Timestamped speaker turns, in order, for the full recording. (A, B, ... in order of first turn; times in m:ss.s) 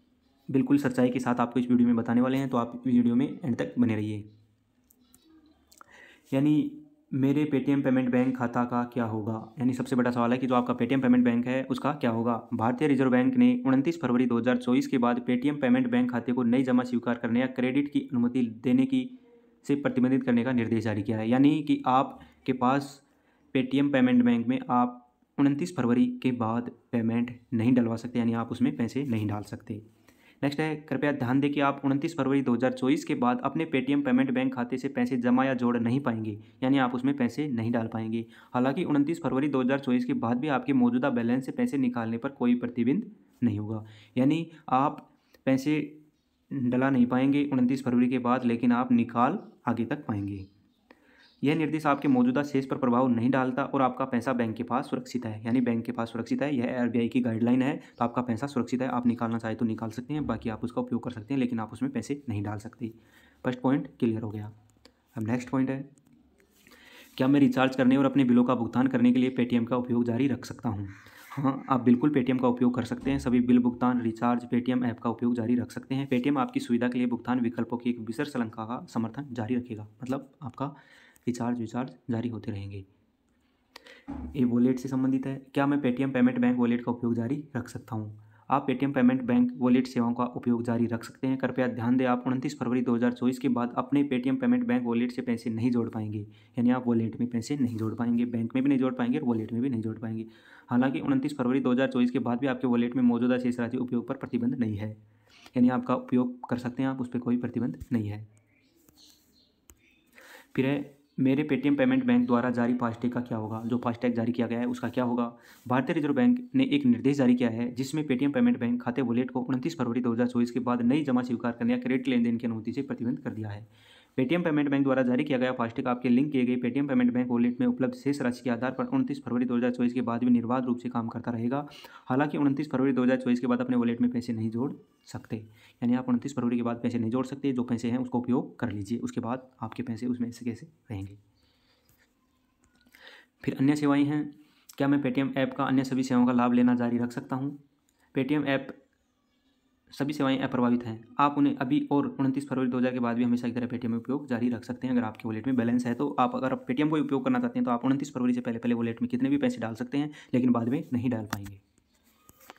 0:00.5-0:04.3 A
0:06.3-0:19.1 A
0:19.6-0:29.8 A
0:30.4-0:46.0 A
0:46.5-0:50.5 A
0:51.4-1:04.5 A
1:05.2-1:05.9 A
1:07.2-1:22.8 A
1:24.2-1:45.0 A
1:45.5-1:48.3 A
1:50.5-2:21.2 A
2:23.4-2:27.6 A
2:28.1-2:28.8 A
2:29.9-2:41.6 A